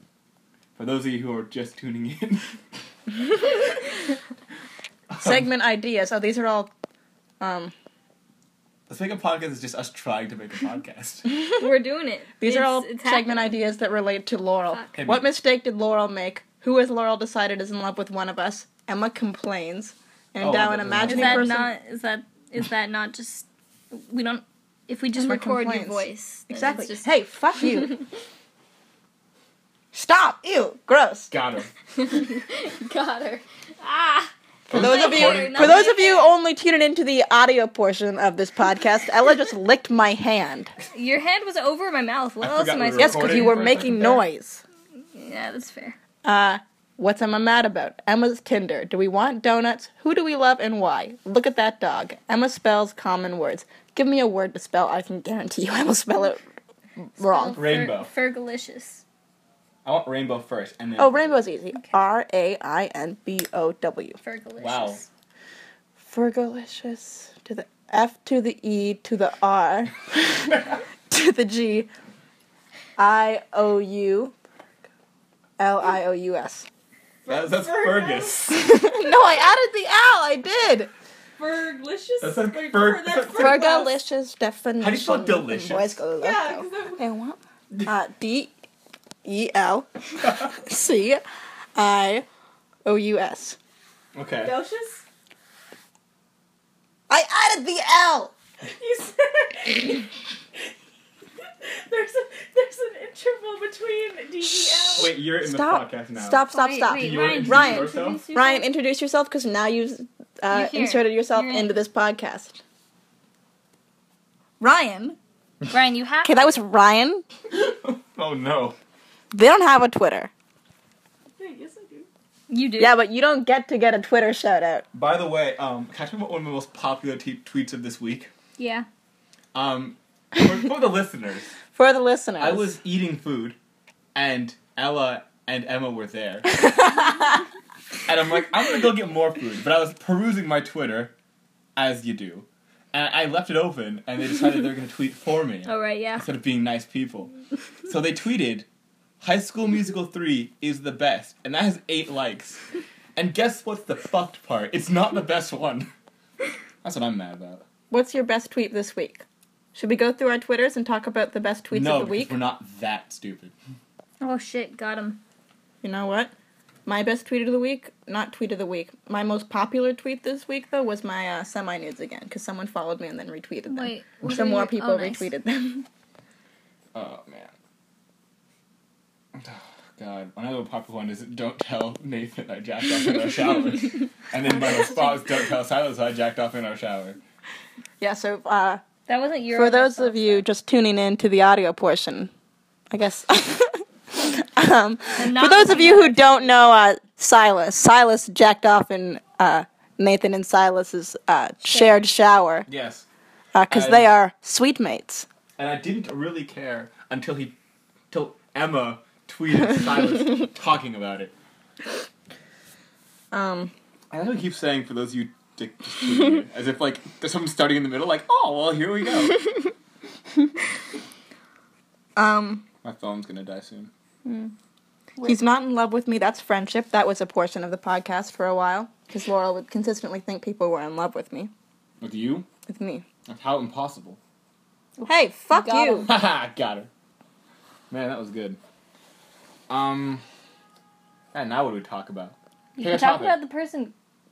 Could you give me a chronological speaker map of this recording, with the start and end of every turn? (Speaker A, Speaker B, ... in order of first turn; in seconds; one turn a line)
Speaker A: 0.8-2.6
Speaker A: 5.1-5.5
Speaker B: 5.2-6.7
Speaker B: 7.4-7.7
Speaker A: 8.9-11.2
Speaker C: 11.4-13.5
Speaker B: 12.4-21.7
Speaker A: 14.9-15.3
Speaker A: 20.4-21.6
Speaker C: 21.0-27.1
Speaker B: 25.2-28.0
Speaker B: 29.9-31.3
Speaker A: 31.3-31.7
Speaker C: 31.9-36.4
Speaker A: 34.7-35.9
Speaker B: 34.7-40.7
Speaker C: 40.9-43.6
Speaker A: 42.4-44.2
Speaker B: 43.0-44.6
Speaker C: 45.1-46.0
Speaker B: 46.2-56.4
Speaker B: 57.0-57.6
Speaker C: 57.2-59.0
Speaker A: 57.5-58.1
Speaker A: 59.8-61.4
Speaker B: 61.0-64.2
Speaker C: 64.2-65.1
Speaker A: 64.6-65.0
Speaker B: 66.0-71.9
Speaker B: 73.0-74.3
Speaker B: 75.6-76.7
Speaker D: 77.2-78.4
Speaker A: 77.3-78.8
Speaker B: 78.5-80.9
Speaker D: 81.4-83.9
Speaker A: 82.2-83.6
Speaker B: 83.3-88.5
Speaker A: 84.8-86.0
Speaker D: 86.2-87.0
Speaker B: 89.2-91.2
Speaker B: 91.8-92.2
Speaker B: 92.8-93.6
Speaker A: 94.1-94.6
Speaker D: 94.5-95.0
Speaker B: 97.1-98.3
Speaker B: 99.7-100.1
Speaker D: 101.9-105.0
Speaker B: 104.4-112.6
Speaker A: 105.0-108.2
Speaker C: 106.5-108.7
Speaker C: 110.5-111.7
Speaker B: 114.6-115.2
Speaker C: 115.7-116.5
Speaker B: 116.2-117.2
Speaker A: 117.5-118.8
Speaker B: 119.3-120.3
Speaker D: 121.4-122.0
Speaker C: 122.5-123.0
Speaker B: 122.8-124.8
Speaker A: 124.9-128.3
Speaker C: 128.6-128.9
Speaker A: 129.5-131.5
Speaker B: 131.7-132.7
Speaker A: 132.4-133.6
Speaker A: 134.1-136.4
Speaker B: 136.5-137.4
Speaker A: 138.1-141.1
Speaker A: 141.8-147.3
Speaker C: 145.7-146.3
Speaker A: 147.8-148.7
Speaker A: 149.2-155.9
Speaker A: 156.8-157.6
Speaker B: 157.9-162.3
Speaker A: 161.7-163.5
Speaker C: 164.2-165.2
Speaker B: 165.8-166.3
Speaker B: 166.8-175.9
Speaker C: 173.7-175.3
Speaker A: 176.9-177.5
Speaker A: 179.3-187.2
Speaker B: 188.0-188.8
Speaker C: 189.1-190.4
Speaker B: 189.5-192.3
Speaker B: 192.9-202.7
Speaker C: 195.2-196.6
Speaker C: 201.7-202.0
Speaker A: 202.7-203.1
Speaker B: 203.5-205.2
Speaker A: 203.7-204.1
Speaker A: 205.6-207.6
Speaker A: 208.1-211.3
Speaker B: 213.3-213.7
Speaker A: 214.1-219.4
Speaker B: 222.2-222.7
Speaker A: 222.8-223.9
Speaker B: 225.2-231.5
Speaker A: 232.0-232.5
Speaker B: 232.7-233.0
Speaker A: 233.3-234.2
Speaker C: 235.0-236.1
Speaker B: 235.0-236.1
Speaker A: 236.1-236.9
Speaker A: 237.9-238.6
Speaker A: 239.7-240.2
Speaker A: 241.3-243.4
Speaker C: 242.8-243.9